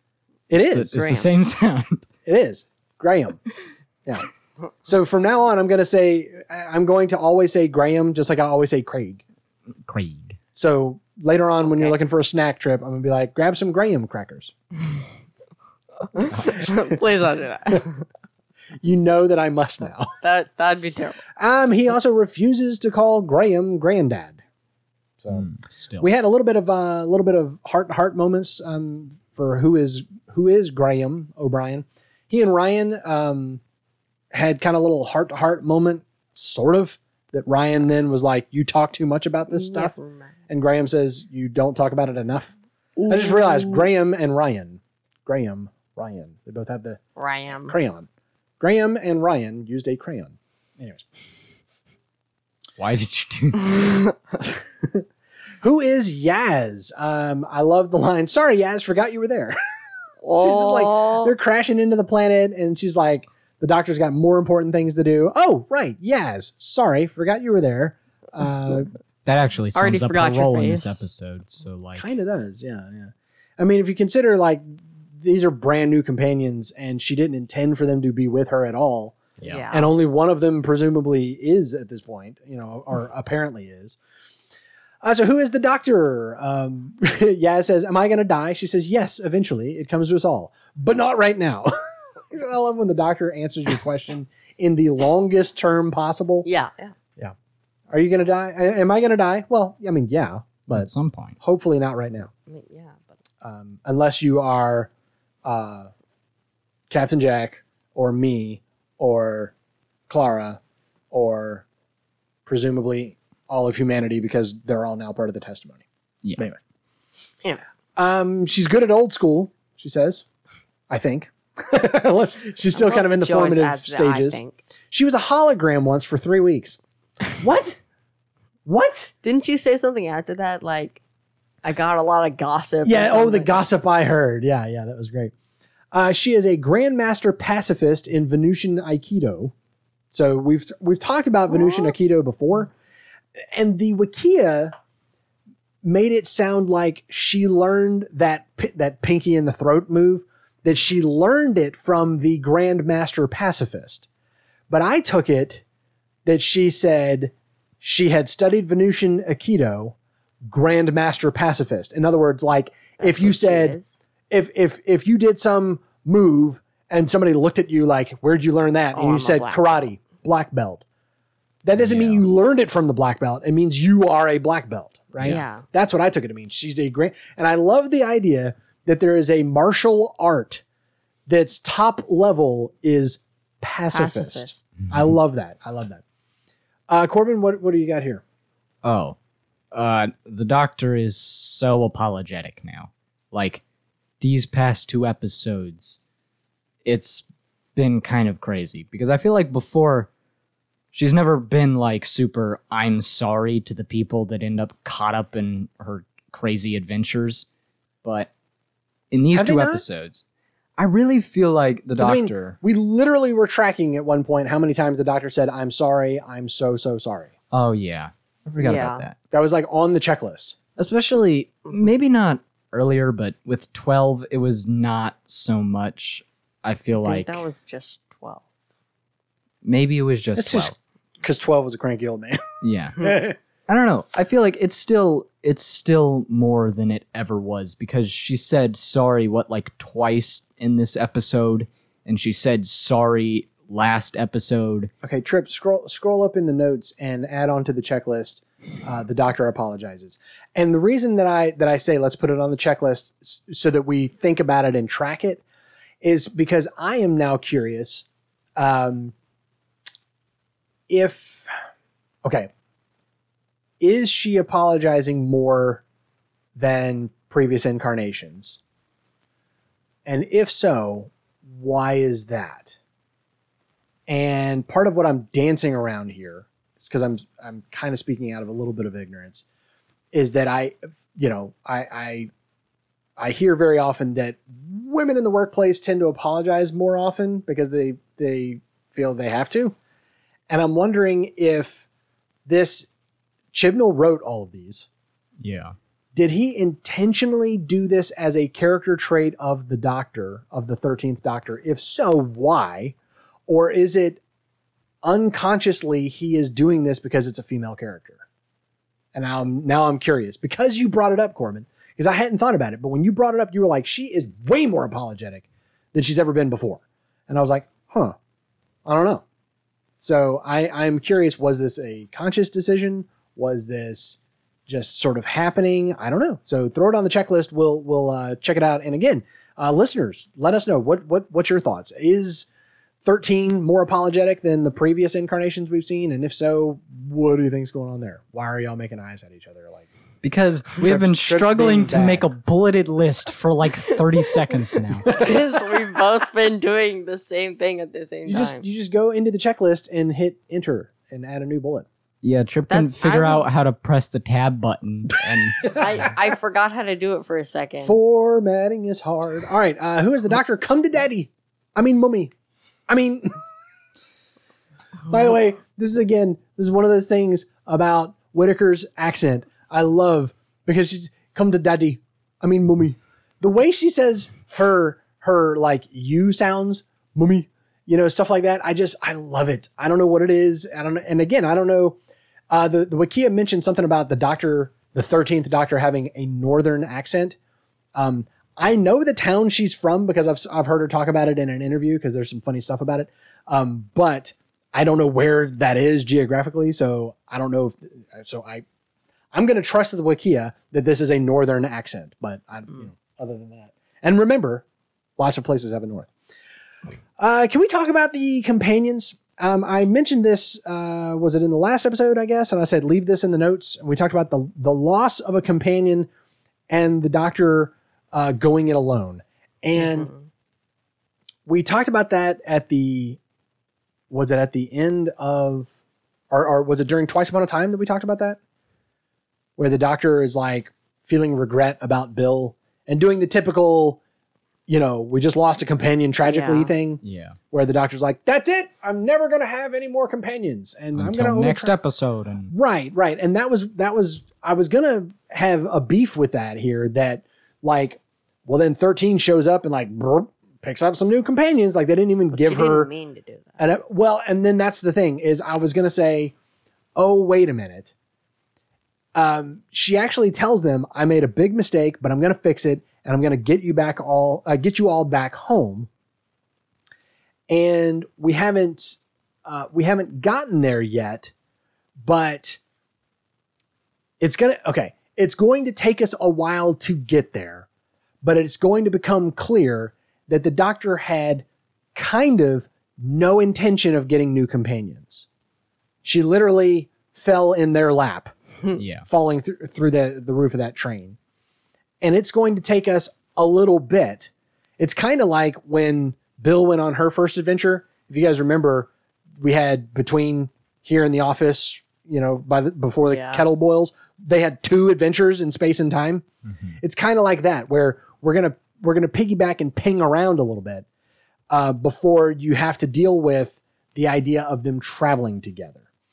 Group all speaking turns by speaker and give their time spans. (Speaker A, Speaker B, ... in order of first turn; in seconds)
Speaker A: 0.5-0.9, 2.2-3.4, 4.8-9.2, 10.5-14.5, 18.8-20.1, 21.4-24.4, 25.2-33.6, 34.3-40.0, 40.5-47.0, 47.6-48.1, 48.6-51.1, 55.6-59.5, 60.3-68.9, 72.0-79.2, 79.7-84.0, 85.0-96.5, 97.9-100.9, 101.4-102.3, 103.4-104.9, 105.4-105.9, 106.9-109.5, 110.1-110.6, 111.1-111.6, 112.5-115.8, 118.0-120.2, 120.9-124.4, 124.9-126.8, 127.4-127.8, 128.7-129.1, 132.8-135.3, 135.9-139.5, 140.1-142.7, 143.5-144.7, 145.8-154.1, 154.7-155.6, 156.2-159.9, 160.5-163.8, 164.3-170.8, 171.6-180.6, 181.3-186.0, 186.9-188.2, 209.3-209.8, 212.0-217.3, 219.3-220.6, 230.3-232.4, 233.0-233.3, 245.0-255.4, 256.0-258.1, 258.6-259.1, 260.9-261.5, 262.2-262.5, 263.8-265.8, 266.5-268.6, 270.1-272.8, 274.1-279.4, 280.1-282.3, 283.2-289.7, 290.5-291.9, 292.4-292.9, 293.5-294.9, 296.1-302.9, 303.5-304.2, 305.0-308.2, 309.1-318.1, 318.8-319.2, 320.0-332.4, 333.0-339.9, 340.8-342.2, 345.1-345.7, 348.3-351.9, 357.8-362.3, 362.9-363.4, 365.1-382.0, 382.5-387.4, 387.9-398.6, 399.3-404.6, 405.2-406.1, 407.2-416.1, 416.7-420.1, 421.4-423.2, 424.1-425.7, 426.3-428.4, 429.6-434.0, 434.7-441.8, 442.5-452.9, 453.6-456.3, 456.9-457.9, 459.1-465.9, 467.5-471.3, 472.0-472.6, 474.2-477.7, 478.2-485.3, 486.0-488.3, 489.1-491.2, 492.0-498.9, 499.4-506.2, 506.8-510.8, 511.5-515.8
Speaker B: 0.5-2.0, 9.8-10.4, 25.3-26.1, 52.8-53.8, 69.2-72.0, 79.4-79.7, 100.7-101.4, 171.8-172.2, 188.8-189.2, 189.7-193.6, 194.2-196.0, 196.8-200.1, 200.9-207.5, 208.0-208.3, 209.1-210.2, 210.8-212.6, 217.5-219.2, 220.8-227.4, 229.6-230.7, 232.6-233.1, 233.7-244.9, 295.4-295.7, 340.2-345.2, 352.2-356.1, 437.0-437.4, 440.9-442.5, 488.8-489.1, 506.5-506.7
Speaker C: 0.9-1.3, 11.6-11.9, 16.1-18.0, 20.2-21.2, 39.5-40.3, 43.3-43.7, 47.2-47.7, 53.8-54.0, 60.2-61.3, 69.7-71.0, 79.4-79.9, 96.4-96.9, 102.5-103.0, 122.7-124.6, 129.2-131.0, 131.6-133.6, 141.6-141.9, 163.0-164.0, 168.9-169.8, 175.2-175.6, 183.9-184.6, 218.6-219.0, 227.0-228.4, 345.1-348.6, 352.7-353.5, 355.7-357.9, 419.8-420.2, 436.2-436.7, 452.3-453.6, 503.1-503.4